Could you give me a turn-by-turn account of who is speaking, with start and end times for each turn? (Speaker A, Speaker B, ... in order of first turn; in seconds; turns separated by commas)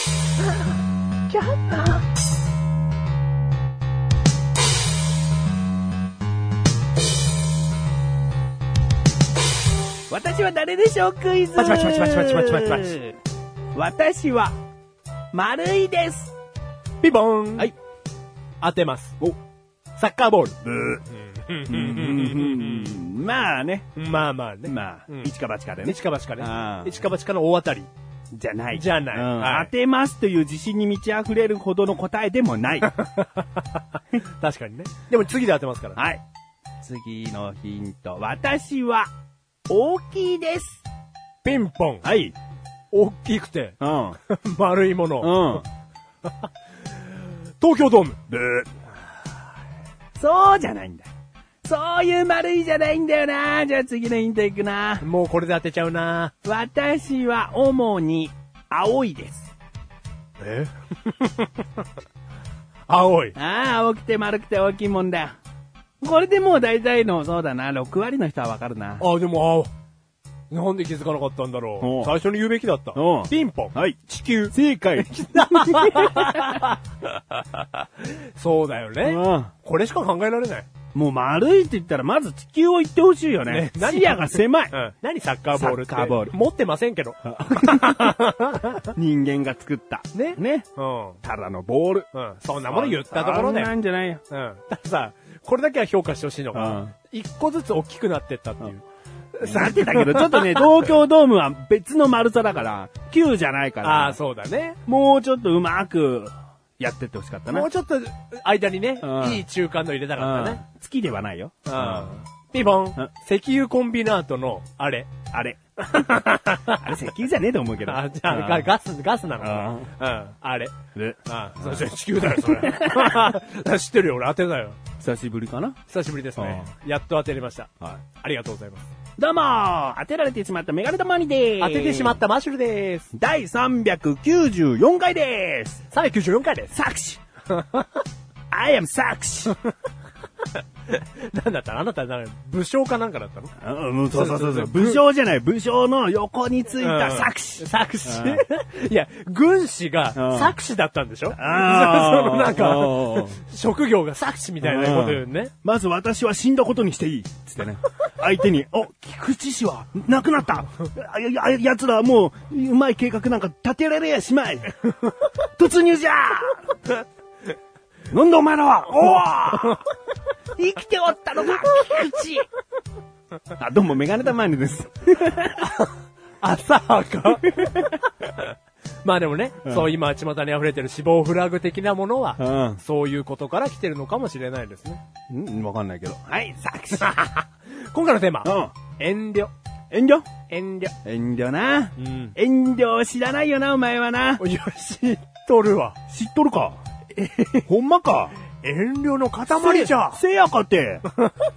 Speaker A: 1.3-2.0, Speaker B: 10.1-13.1, Speaker A: 11.6-13.1, Speaker B: 13.7-14.6, Speaker B: 15.3-16.3, Speaker A: 17.0-17.7, Speaker A: 18.6-19.2, Speaker A: 19.9-20.6, Speaker B: 20.6-21.0, Speaker A: 21.1-23.0, Speaker B: 21.7-23.9, Speaker A: 23.9-25.3, Speaker B: 24.6-27.0, Speaker A: 25.8-27.9, Speaker B: 28.3-32.9, Speaker A: 28.7-29.7, Speaker A: 32.8-36.0, Speaker B: 36.0-36.2, Speaker B: 36.8-39.1, Speaker B: 39.7-40.8, Speaker A: 41.4-42.0, Speaker B: 42.0-42.3, Speaker A: 42.9-45.6, Speaker B: 43.8-44.2, Speaker B: 45.2-45.6, Speaker A: 47.0-48.2, Speaker B: 48.3-48.7, Speaker B: 50.1-51.1, Speaker B: 51.6-55.0, Speaker A: 55.0-56.3, Speaker B: 56.4-59.5, Speaker A: 60.4-61.6, Speaker A: 62.9-63.4, Speaker B: 63.4-65.3, Speaker B: 66.0-69.0, Speaker A: 69.0-69.7, Speaker A: 70.5-74.5, Speaker B: 71.8-72.1, Speaker B: 72.9-76.6, Speaker A: 75.1-76.8, Speaker A: 78.0-80.7, Speaker B: 79.0-79.5, Speaker B: 80.9-84.7, Speaker A: 83.4-88.9, Speaker B: 85.5-86.3, Speaker B: 87.3-88.2, Speaker B: 88.9-90.7, Speaker A: 90.1-91.2, Speaker B: 91.2-92.1, Speaker A: 92.1-93.7, Speaker B: 92.6-94.2, Speaker A: 94.3-98.8, Speaker B: 96.5-96.9, Speaker A: 99.3-100.8, Speaker B: 99.4-104.2, Speaker A: 103.8-104.8, Speaker B: 104.8-107.7, Speaker A: 107.5-110.6, Speaker B: 109.0-109.4, Speaker B: 110.2-112.1, Speaker A: 111.7-115.1, Speaker B: 115.3-118.7, Speaker A: 115.9-116.8, Speaker A: 117.8-120.7, Speaker B: 119.4-119.9, Speaker B: 120.9-123.2, Speaker A: 121.2-124.8, Speaker B: 125.0-125.8, Speaker A: 125.9-128.9, Speaker B: 126.4-126.7, Speaker B: 129.2-132.2, Speaker A: 131.6-133.1, Speaker B: 133.1-135.8, Speaker A: 135.9-136.7, Speaker B: 136.7-137.2, Speaker A: 137.5-138.0, Speaker B: 138.5-139.6, Speaker A: 140.9-143.5, Speaker B: 143.6-148.4, Speaker A: 144.1-145.0, Speaker A: 146.8-155.5, Speaker B: 150.1-150.6, Speaker B: 151.3-153.4, Speaker B: 154.6-164.9, Speaker B: 165.6-166.7, Speaker B: 168.1-169.8, Speaker B: 170.6-172.5, Speaker B: 173.6-175.7, Speaker A: 175.6-177.9, Speaker B: 177.5-177.9, Speaker A: 179.0-185.0, Speaker B: 179.6-179.9, Speaker B: 182.4-182.8, Speaker B: 185.3-187.1, Speaker A: 187.0-189.5, Speaker B: 188.4-188.7, Speaker B: 189.9-190.3, Speaker A: 190.5-190.9, Speaker B: 191.0-194.4, Speaker A: 192.0-192.3, Speaker A: 194.4-196.0, Speaker B: 196.1-196.8, Speaker A: 197.2-197.7, Speaker B: 197.6-198.3, Speaker A: 198.6-200.2, Speaker B: 199.5-201.1, Speaker A: 201.2-201.5